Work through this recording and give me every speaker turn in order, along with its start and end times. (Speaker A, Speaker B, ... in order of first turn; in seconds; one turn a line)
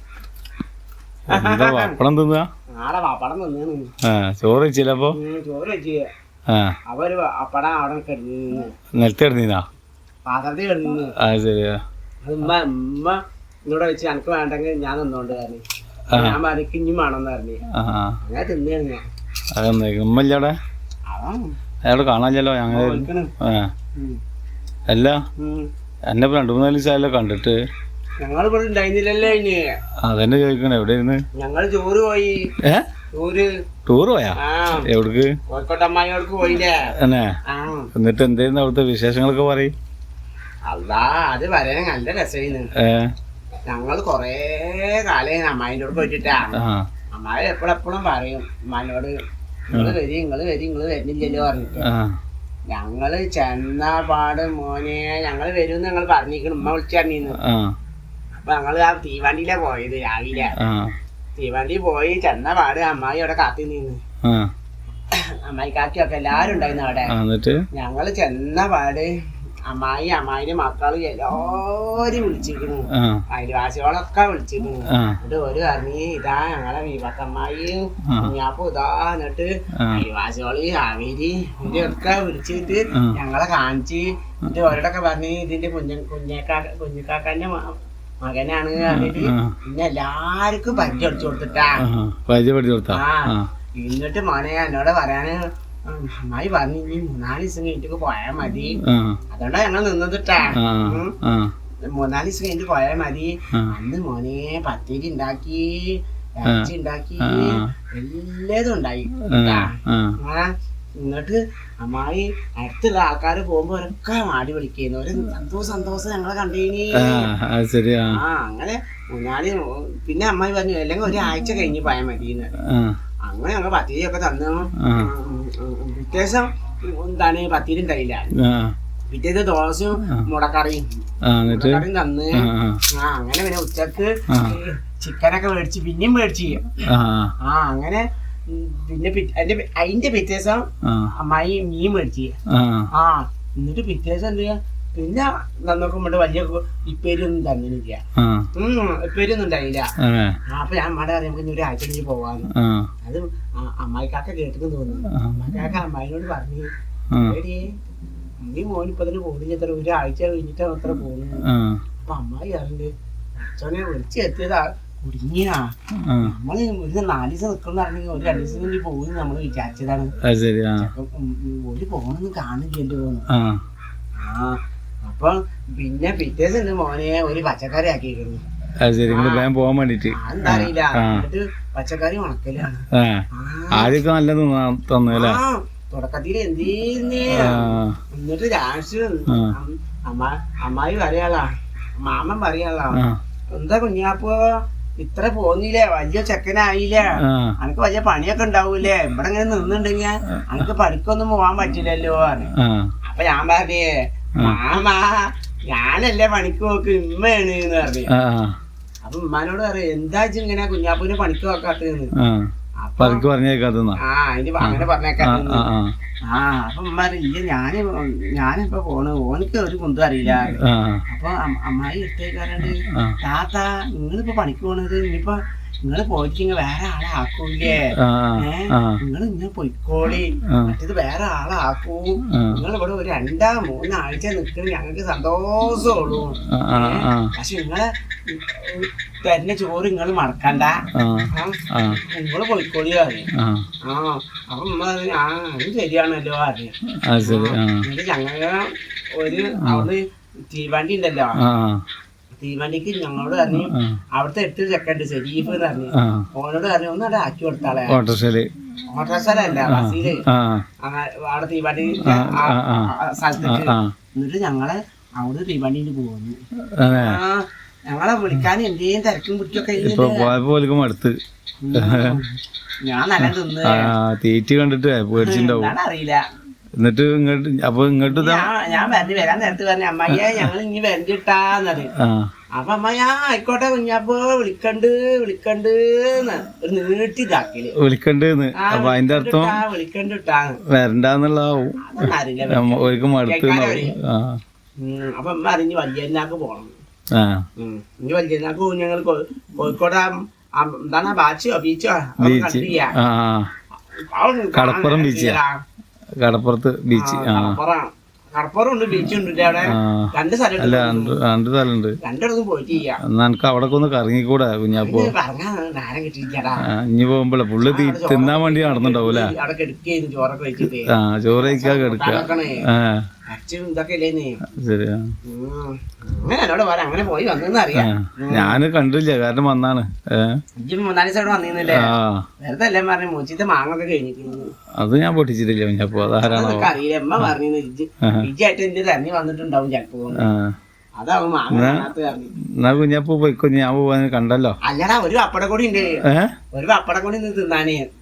Speaker A: 1.3-2.0
Speaker B: 1.3-2.5
Speaker A: 2.7-3.9
Speaker B: 4.0-5.2
Speaker A: 5.1-6.1
Speaker B: 6.5-6.7
Speaker A: 6.9-8.7
Speaker B: 8.9-9.6
Speaker A: 10.2-11.1
Speaker B: 11.2-11.8
Speaker A: 12.2-17.6
Speaker B: 16.1-16.4
Speaker B: 17.7-18.2
Speaker A: 18.2-19.0
Speaker B: 19.5-20.5
Speaker A: 21.1-21.5
Speaker B: 21.9-23.7
Speaker A: 22.7-23.3
Speaker B: 24.9-25.2
Speaker A: 25.4-25.7
Speaker B: 26.1-27.6
Speaker A: 28.2-29.6
Speaker B: 30.0-31.2
Speaker A: 31.3-32.4
Speaker A: 33.1-33.5
Speaker B: 33.9-35.3
Speaker A: 34.4-34.9
Speaker A: 35.5-36.9
Speaker B: 37.0-37.4
Speaker A: 37.5-37.9
Speaker B: 37.9-39.7
Speaker A: 40.6-42.7
Speaker B: 42.8-43.1
Speaker A: 43.7-49.2
Speaker B: 46.5-46.9
Speaker A: 49.7-51.9
Speaker B: 51.8-52.1
Speaker A: 52.7-57.4
Speaker B: 57.4-57.7
Speaker A: 58.3-60.5
Speaker B: 60.6-60.9
Speaker A: 61.4-64.0
Speaker B: 64.2-64.5
Speaker A: 65.1-67.1
Speaker B: 67.1-67.6
Speaker A: 67.7-69.1
Speaker A: 69.7-91.8
Speaker B: 72.9-73.2
Speaker B: 74.9-75.2
Speaker B: 78.1-78.3
Speaker B: 88.8-89.5
Speaker B: 91.8-93.5
Speaker A: 92.9-98.8
Speaker B: 98.9-99.2
Speaker A: 99.3-101.2
Speaker B: 100.6-101.5
Speaker A: 101.9-110.5
Speaker B: 107.2-107.7
Speaker B: 109.3-110.2
Speaker A: 111.0-117.3
Speaker B: 117.0-118.2
Speaker A: 118.1-122.5
Speaker B: 122.6-123.0
Speaker A: 123.2-128.3
Speaker B: 124.8-125.1
Speaker B: 128.4-128.7
Speaker A: 129.1-130.8
Speaker B: 131.3-132.8
Speaker A: 131.4-136.8
Speaker B: 134.3-134.6
Speaker B: 136.9-137.3
Speaker A: 137.4-142.3
Speaker B: 140.8-141.1
Speaker B: 142.5-142.9
Speaker A: 142.9-148.0
Speaker B: 148.2-148.5
Speaker A: 148.5-149.9
Speaker B: 150.0-150.4
Speaker A: 150.5-152.5
Speaker B: 152.5-152.9
Speaker A: 153.0-157.7
Speaker B: 155.1-155.7
Speaker A: 158.4-161.4
Speaker B: 161.4-161.8
Speaker A: 162.0-170.1
Speaker B: 166.0-166.3
Speaker B: 170.3-170.9
Speaker A: 170.8-173.2
Speaker B: 173.3-173.6
Speaker A: 174.2-178.4
Speaker B: 178.8-181.2
Speaker A: 179.1-179.5
Speaker A: 180.1-184.0
Speaker B: 182.9-185.4
Speaker A: 185.1-194.4
Speaker B: 187.3-188.0
Speaker B: 189.3-189.5
Speaker A: 195.0-202.5
Speaker B: 197.2-197.5
Speaker B: 202.6-202.9
Speaker A: 203.1-208.1
Speaker B: 208.1-208.5
Speaker A: 209.0-212.1
Speaker B: 212.2-212.5
Speaker A: 212.8-213.2
Speaker B: 213.0-214.0
Speaker A: 214.0-215.6
Speaker B: 214.6-215.9
Speaker A: 216.2-243.3
Speaker B: 220.5-221.0
Speaker B: 228.0-229.0
Speaker B: 232.3-232.6
Speaker B: 236.5-237.3
Speaker B: 240.9-242.0
Speaker B: 243.3-243.7
Speaker A: 243.8-250.0
Speaker B: 247.0-247.8
Speaker B: 249.6-249.9
Speaker A: 250.5-251.4
Speaker B: 251.4-251.8
Speaker A: 252.4-258.0
Speaker B: 253.5-254.0
Speaker B: 256.0-256.2
Speaker B: 257.9-258.5
Speaker A: 258.9-260.2
Speaker B: 259.6-260.6
Speaker A: 260.8-270.3
Speaker B: 262.0-262.9
Speaker B: 263.4-263.9
Speaker B: 266.7-267.2
Speaker B: 269.8-271.2
Speaker A: 271.6-273.9
Speaker B: 271.7-272.2
Speaker B: 273.2-275.7
Speaker A: 275.2-276.2
Speaker B: 276.8-278.5
Speaker A: 278.1-281.9
Speaker B: 280.1-280.5
Speaker B: 282.0-282.3
Speaker A: 282.5-287.7
Speaker B: 287.8-289.6
Speaker A: 288.6-290.6
Speaker B: 290.7-294.4
Speaker A: 291.8-293.9
Speaker A: 294.8-296.7
Speaker B: 297.1-297.4
Speaker A: 297.6-302.9
Speaker B: 302.2-303.5
Speaker A: 304.1-305.6
Speaker B: 304.5-305.4
Speaker B: 306.2-307.6
Speaker A: 306.9-311.1
Speaker B: 309.7-312.0
Speaker A: 312.0-313.0
Speaker B: 313.0-315.1
Speaker A: 314.8-316.6
Speaker B: 316.7-319.3
Speaker A: 317.6-322.6
Speaker B: 320.9-323.0
Speaker A: 323.3-324.4
Speaker B: 324.6-325.1
Speaker A: 325.3-328.6
Speaker B: 327.7-330.4
Speaker A: 330.6-334.5
Speaker B: 331.7-332.3
Speaker B: 334.8-337.3
Speaker A: 336.2-340.3
Speaker B: 340.2-340.6
Speaker A: 341.0-342.3
Speaker B: 341.5-341.9
Speaker B: 342.6-344.6
Speaker A: 344.6-346.0
Speaker A: 346.5-347.8